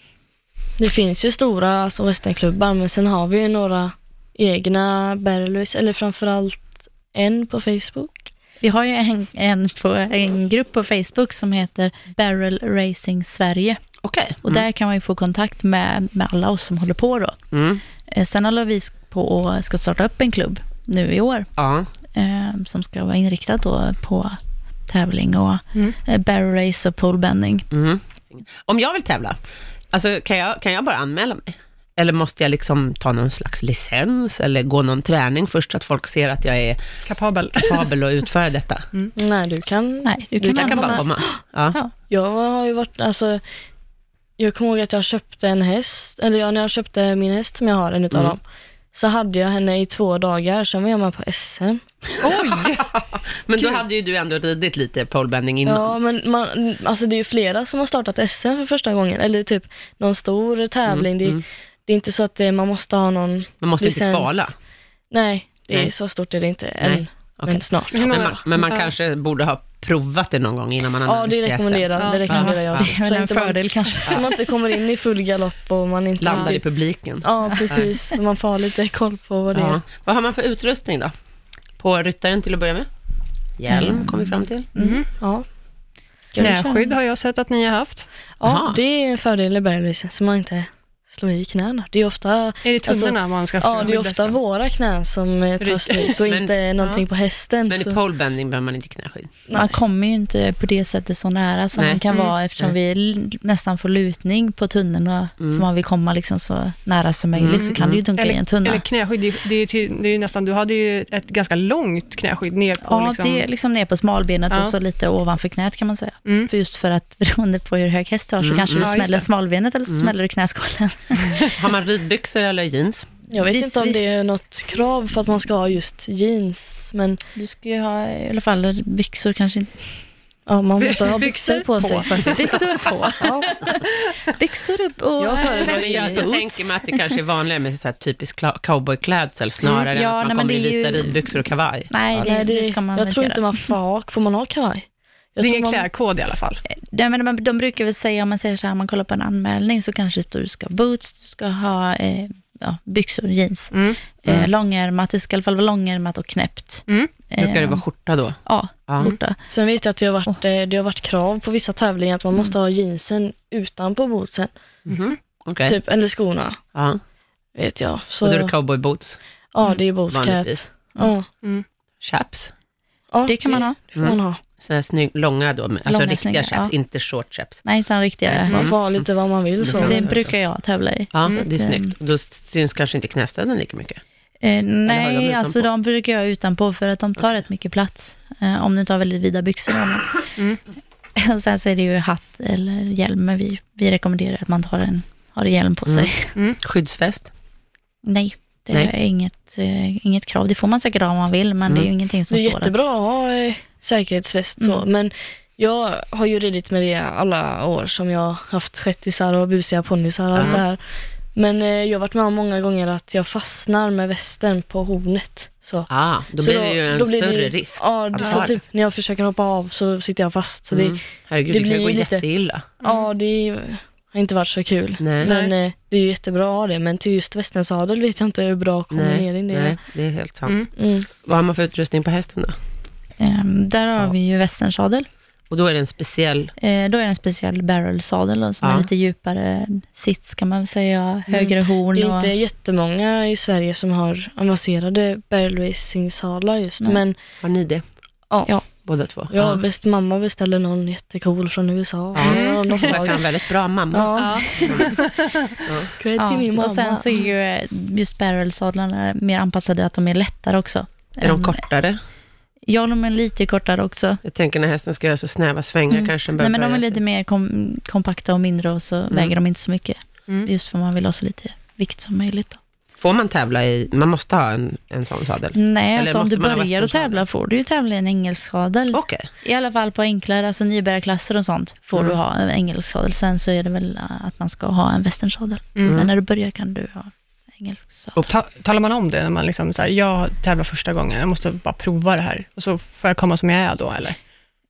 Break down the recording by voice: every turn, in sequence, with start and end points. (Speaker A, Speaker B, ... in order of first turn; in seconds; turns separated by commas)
Speaker A: 0.8-8.2, Speaker B: 8.6-13.8, Speaker C: 14.0-14.6, Speaker B: 14.4-17.4, Speaker C: 17.5-17.8, Speaker B: 18.1-21.5, Speaker C: 21.6-21.9, Speaker B: 22.1-27.6, Speaker C: 27.7-29.4, Speaker C: 29.9-36.8, Speaker D: 37.1-37.9, Speaker C: 37.5-38.8, Speaker A: 39.1-41.4, Speaker B: 40.0-41.2, Speaker C: 40.5-41.8, Speaker A: 42.1-43.4, Speaker A: 44.4-51.8, Speaker D: 52.2-52.9, Speaker C: 52.6-56.0, Speaker A: 55.6-64.5, Speaker C: 60.9-61.4, Speaker C: 63.6-64.5, Speaker A: 65.1-68.4, Speaker C: 66.8-72.9, Speaker D: 67.9-68.9, Speaker A: 71.0-79.8, Speaker B: 72.3-74.4, Speaker C: 76.2-77.9, Speaker C: 79.5-81.1, Speaker C: 81.8-82.9, Speaker C: 83.6-84.7, Speaker B: 83.7-85.0, Speaker D: 84.8-85.1, Speaker A: 85.2-85.5, Speaker B: 86.3-86.9, Speaker D: 86.4-88.1, Speaker A: 88.4-98.0, Speaker C: 88.4-88.8, Speaker D: 92.6-94.4, Speaker D: 95.6-96.2, Speaker C: 96.2-96.5, Speaker C: 97.7-99.3, Speaker A: 99.5-99.7, Speaker B: 99.5-108.8, Speaker C: 101.8-102.0, Speaker C: 105.4-105.6, Speaker C: 107.3-108.0, Speaker D: 107.5-113.4, Speaker B: 112.8-121.4, Speaker D: 116.2-116.5, Speaker C: 118.4-119.0, Speaker D: 118.8-119.3, Speaker C: 119.9-120.1, Speaker C: 121.4-123.1, Speaker A: 123.3-127.2, Speaker B: 123.3-124.0, Speaker B: 127.3-130.0, Speaker A: 130.5-132.5, Speaker D: 130.8-133.2, Speaker B: 132.0-136.8, Speaker A: 133.2-133.6, Speaker A: 135.2-136.3, Speaker C: 135.6-141.9, Speaker B: 139.9-143.5, Speaker A: 142.1-145.9, Speaker D: 145.4-146.6, Speaker B: 146.7-157.8, Speaker D: 153.7-154.0, Speaker C: 157.4-159.1, Speaker B: 158.4-159.4, Speaker A: 159.5-164.5, Speaker C: 164.8-165.8, Speaker D: 164.9-165.2, Speaker A: 165.6-166.6, Speaker C: 166.7-167.0, Speaker A: 167.5-168.5, Speaker C: 168.2-169.2, Speaker A: 169.5-171.3, Speaker C: 170.1-170.6, Speaker C: 172.0-172.5, Speaker A: 173.1-174.4, Speaker B: 173.2-174.2, Speaker C: 173.9-177.7, Speaker B: 175.8-176.7, Speaker B: 177.6-178.7, Speaker C: 178.2-179.1, Speaker A: 178.5-180.3, Speaker C: 179.6-180.3, Speaker B: 179.8-181.9, Speaker C: 181.1-184.0, Speaker B: 184.4-190.2, Speaker C: 184.8-185.7, Speaker B: 191.2-196.3, Speaker C: 195.9-197.3, Speaker B: 198.0-202.8, Speaker A: 202.3-222.2, Speaker B: 204.6-204.8, Speaker C: 210.3-210.6, Speaker C: 215.9-218.5, Speaker D: 218.2-218.5, Speaker C: 220.7-222.6, Speaker A: 222.8-229.8, Speaker D: 222.8-223.1, Speaker C: 225.0-225.3, Speaker D: 225.2-225.5, Speaker C: 228.9-232.6, Speaker A: 230.8-231.1, Speaker B: 233.2-235.1, Speaker C: 235.5-236.5, Speaker B: 236.6-242.3, Speaker C: 238.6-238.9, Speaker A: 241.9-247.2, Speaker C: 247.4-247.8, Speaker A: 248.3-253.2, Speaker C: 248.8-249.6, Speaker C: 252.1-254.9, Speaker D: 252.2-252.9, Speaker A: 253.9-255.0, Speaker D: 254.2-255.3, Speaker C: 255.7-255.9, Speaker A: 256.0-257.1, Speaker B: 256.2-261.6, Speaker C: 261.2-262.0, Speaker B: 262.6-264.2, Speaker C: 264.2-267.0, Speaker B: 265.9-272.6, Speaker C: 273.0-277.2, Speaker B: 275.5-288.1, Speaker C: 278.9-279.2, Speaker D: 285.7-286.0, Speaker C: 285.8-286.1, Speaker D: 288.2-294.2